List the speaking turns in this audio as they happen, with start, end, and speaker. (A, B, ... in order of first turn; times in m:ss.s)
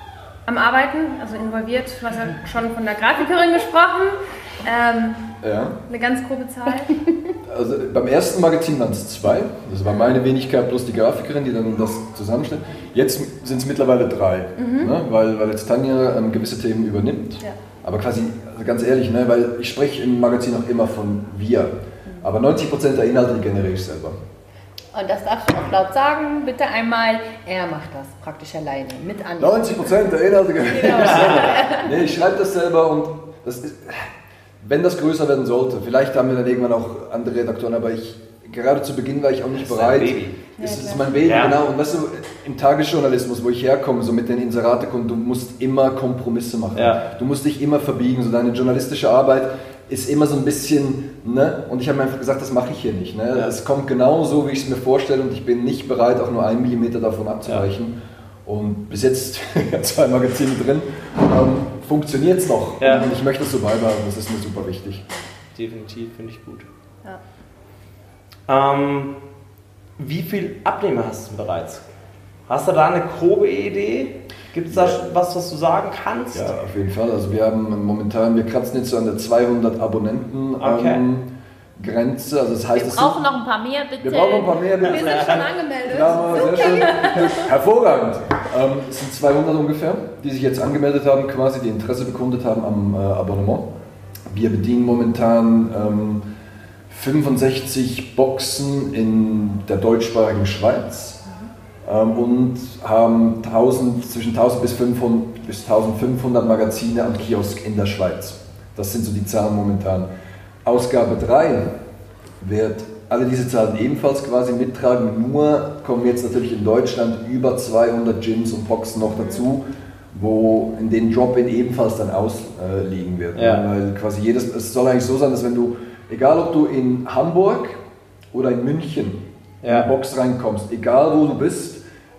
0:00.4-0:05.2 A
0:05.4-0:05.8 B
0:05.9-0:07.0 A
0:07.4-0:24.2 B
0:14.6-0:14.9 A
0:24.9-0:29.9 C
0:29.4-1:05.0 B
0:30.7-0:31.8 C
0:30.7-0:31.9 A
0:30.9-0:31.5 D
0:39.5-0:40.4 D
0:40.6-0:41.1 A
0:41.2-0:41.6 D
0:46.7-0:47.0 D
1:02.8-1:03.1 D
1:05.5-1:06.7 D
1:08.5-1:09.1 D
1:10.0-1:11.8 D
1:12.5-1:16.5 D
1:14.7-1:15.0 B
1:16.3-1:23.2 B
1:20.6-1:21.0 D
1:22.7-1:27.4 C
1:24.0-1:33.7 B
1:24.8-1:25.4 D
1:25.2-1:27.2 A
1:34.3-1:36.2 B
1:36.9-1:41.2 B
1:41.8-1:50.1 B
1:50.6-1:51.8 B
1:52.4-2:07.8 B
2:03.4-2:03.6 D
2:08.3-2:11.8 B
2:09.6-2:09.9 D